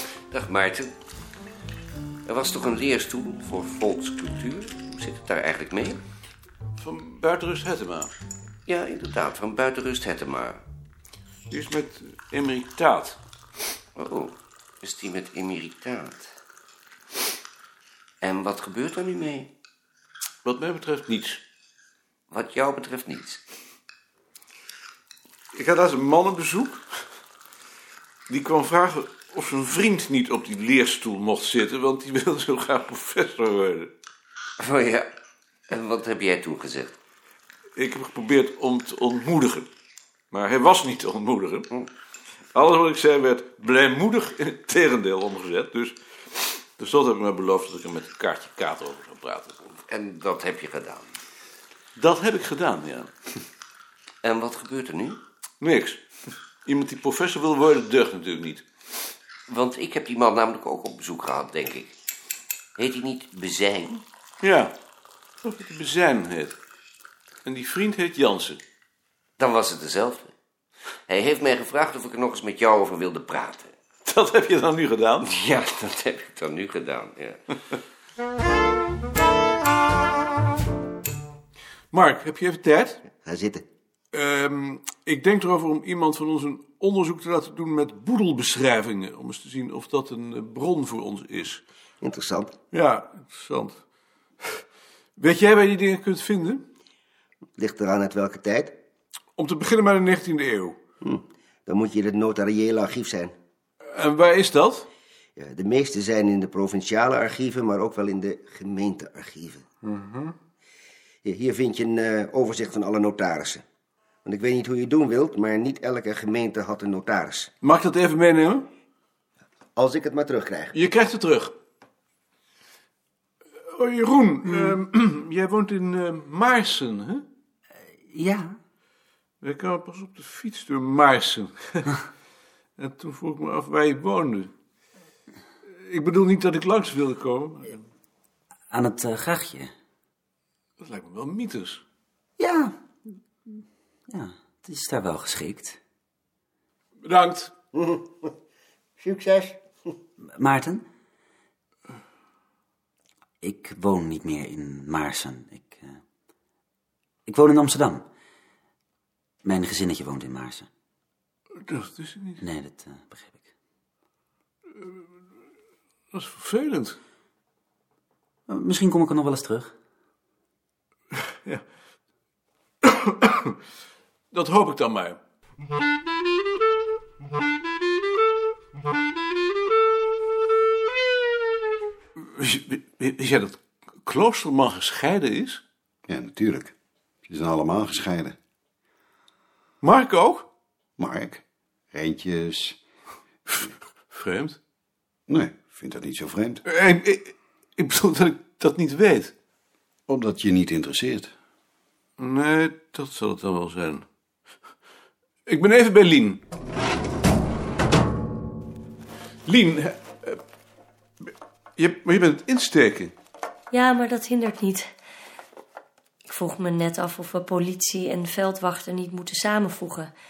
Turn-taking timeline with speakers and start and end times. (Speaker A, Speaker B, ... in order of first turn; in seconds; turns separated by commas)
Speaker A: 0.3-0.9, Speaker A: 2.2-6.0, Speaker B: 6.8-8.1, Speaker A: 8.7-10.6, Speaker B: 11.5-13.2, Speaker A: 13.9-16.2, Speaker A: 18.2-19.5, Speaker B: 20.4-21.4, Speaker A: 22.3-23.4, Speaker B: 25.5-26.8, Speaker B: 28.3-33.9, Speaker A: 34.6-35.1, Speaker A: 35.7-36.9, Speaker B: 37.8-39.7, Speaker B: 40.3-41.7, Speaker B: 42.5-46.0, Speaker B: 46.8-49.8, Speaker A: 49.7-51.1, Speaker B: 52.0-53.1, Speaker A: 54.2-55.2, Speaker B: 55.6-56.0, Speaker B: 56.6-58.6, Speaker A: 59.5-61.9, Speaker A: 62.8-64.0, Speaker B: 64.4-64.7, Speaker B: 65.4-66.5, Speaker B: 67.4-68.6, Speaker A: 69.4-70.3, Speaker A: 71.1-73.7, Speaker B: 74.0-75.3, Speaker A: 75.2-77.4, Speaker B: 81.9-83.0, Speaker C: 83.2-83.6, Speaker B: 84.1-91.6, Speaker C: 92.0-92.5, Speaker B: 92.7-93.8, Speaker B: 95.2-96.6, Speaker C: 97.6-98.8, Speaker B: 99.3-100.8, Speaker C: 101.0-103.3, Speaker B: 103.9-104.9, Speaker C: 105.4-109.6, Speaker B: 109.8-110.3, Speaker C: 111.2-113.6, Speaker C: 114.2-117.5, Speaker B: 117.6-118.7, Speaker C: 119.8-120.8, Speaker B: 120.7-121.5, Speaker B: 123.7-127.2, Speaker B: 129.4-131.9, Speaker B: 132.8-134.5, Speaker B: 135.8-137.8, Speaker D: 138.7-139.7, Speaker B: 140.8-141.8, Speaker D: 142.4-142.7, Speaker D: 144.2-145.7, Speaker B: 147.0-147.5, Speaker C: 147.7-148.3, Speaker C: 149.0-149.6, Speaker D: 150.4-150.8, Speaker D: 153.4-155.7, Speaker D: 157.3-158.0, Speaker D: 159.4-160.6, Speaker B: 161.6-162.4, Speaker D: 162.4-163.2, Speaker B: 166.1-167.0, Speaker D: 168.5-169.7, Speaker B: 172.8-173.5, Speaker B: 174.3-175.2, Speaker B: 182.2-185.6, Speaker E: 186.1-186.7, Speaker E: 187.3-188.3, Speaker B: 189.8-190.5, Speaker E: 191.0-191.4, Speaker E: 191.9-192.8, Speaker B: 193.5-194.6, Speaker E: 195.3-196.6, Speaker B: 196.6-199.3, Speaker E: 200.1-201.3, Speaker B: 202.2-204.0, Speaker B: 205.5-206.4, Speaker B: 209.4-210.4, Speaker B: 211.8-213.1, Speaker F: 213.7-214.9, Speaker F: 216.3-220.1